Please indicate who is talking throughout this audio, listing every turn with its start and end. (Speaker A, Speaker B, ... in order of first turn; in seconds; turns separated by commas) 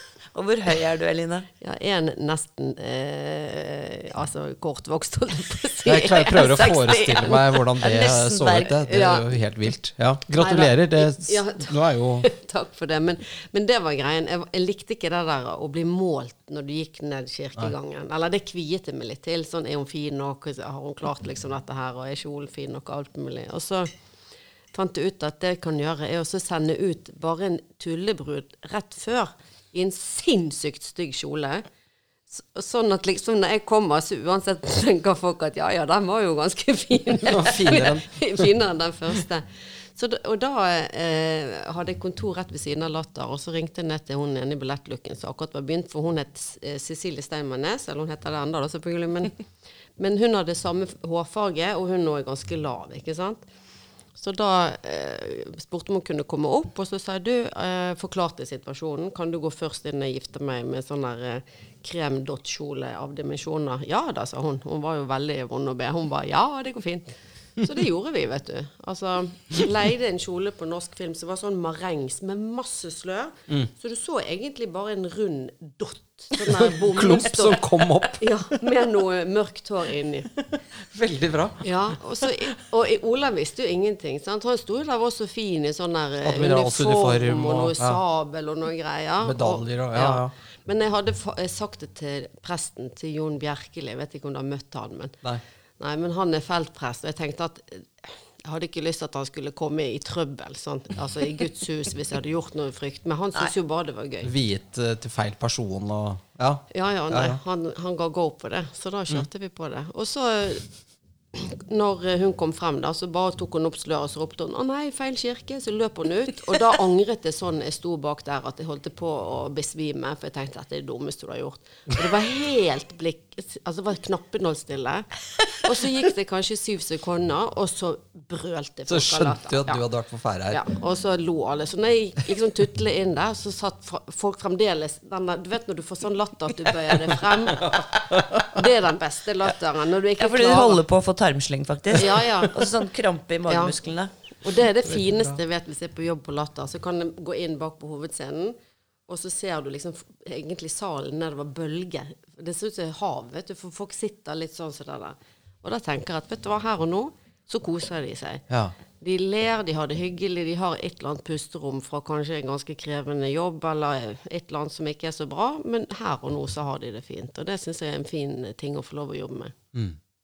Speaker A: 0.3-1.5, Speaker B: 1.6-7.2, Speaker C: 5.8-12.3, Speaker A: 6.3-8.7, Speaker B: 8.8-9.3, Speaker B: 10.3-23.9, Speaker B: 24.7-31.6, Speaker B: 32.3-49.4, Speaker C: 37.3-38.5, Speaker B: 50.0-53.5, Speaker B: 54.1-80.3, Speaker C: 76.4-78.6, Speaker C: 80.4-81.7, Speaker B: 81.6-95.2, Speaker C: 86.2-88.0, Speaker C: 89.2-90.3, Speaker B: 95.8-104.3, Speaker C: 104.2-107.4, Speaker B: 106.7-110.7, Speaker B: 111.3-129.8, Speaker C: 128.9-130.6, Speaker B: 130.5-140.8, Speaker C: 136.9-138.6, Speaker A: 140.2-144.1, Speaker B: 141.9-142.6, Speaker B: 143.5-143.7, Speaker B: 144.4-148.6, Speaker C: 144.9-145.3, Speaker B: 149.1-158.4, Speaker C: 158.5-158.7, Speaker B: 159.0-169.5